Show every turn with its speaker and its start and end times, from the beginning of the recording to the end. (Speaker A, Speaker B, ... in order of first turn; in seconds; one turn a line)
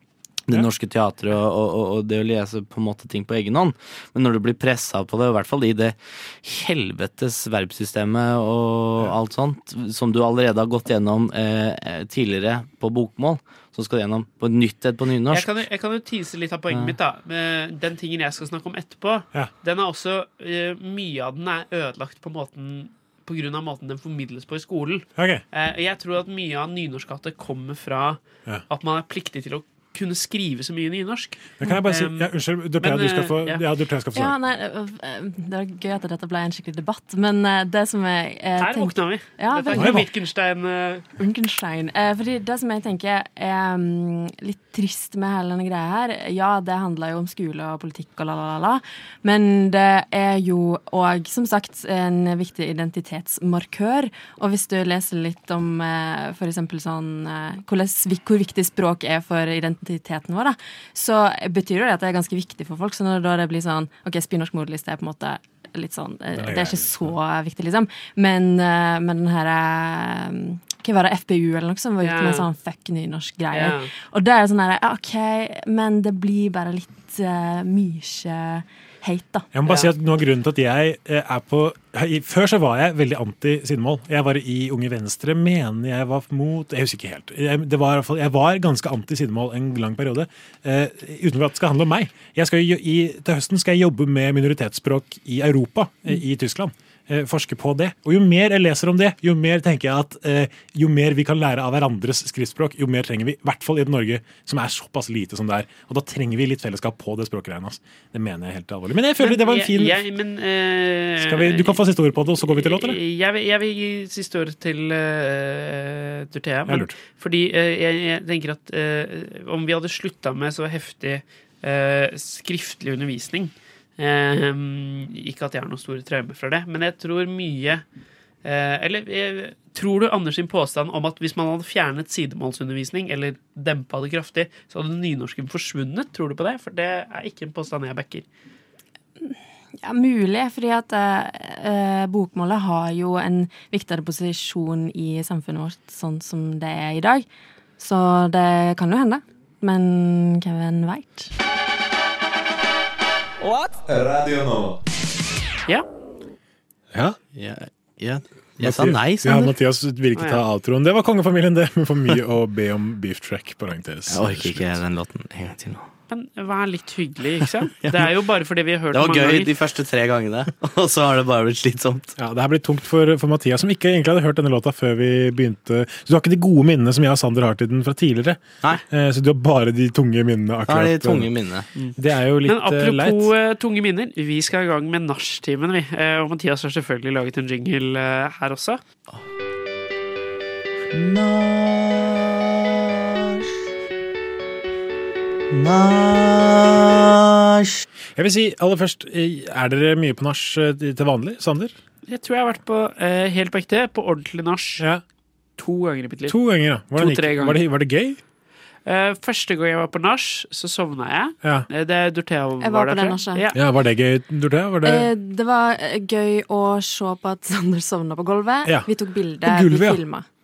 Speaker A: 0.5-15.5
Speaker B: 15.3-33.6
Speaker C: 25.2-25.4
Speaker C: 31.6-34.4
Speaker D: 34.1-40.0
Speaker B: 38.6-41.1
Speaker C: 39.7-40.0
Speaker D: 41.2-79.5
Speaker C: 66.4-67.1
Speaker B: 72.0-72.4
Speaker B: 73.5-73.9
Speaker C: 79.5-110.0
Speaker B: 79.7-79.9
Speaker B: 109.2-111.8
Speaker C: 111.2-113.0
Speaker B: 112.4-127.8
Speaker C: 116.7-117.0
Speaker B: 128.4-138.2
Speaker D: 139.2-147.2
Speaker D: 147.8-151.3
Speaker E: 153.4-153.8
Speaker A: 157.3-159.5
Speaker C: 158.6-164.8
Speaker B: 160.1-160.4
Speaker A: 164.1-165.8
Speaker B: 166.1-169.5
Speaker A: 167.8-168.1
Speaker A: 168.9-172.2
Speaker C: 172.2-181.3
Speaker A: 180.7-181.7
Speaker B: 181.8-188.8
Speaker C: 182.0-183.3
Speaker E: 191.0-191.8
Speaker E: 195.6-196.4
Speaker A: 195.6-197.1
Speaker C: 198.2-201.7
Speaker B: 202.1-204.8
Speaker B: 205.6-206.3
Speaker C: 206.3-208.2
Speaker B: 206.9-207.6
Speaker B: 208.8-213.6
Speaker D: 212.6-213.5
Speaker C: 213.5-215.1
Speaker D: 214.8-220.2
Speaker C: 219.4-220.0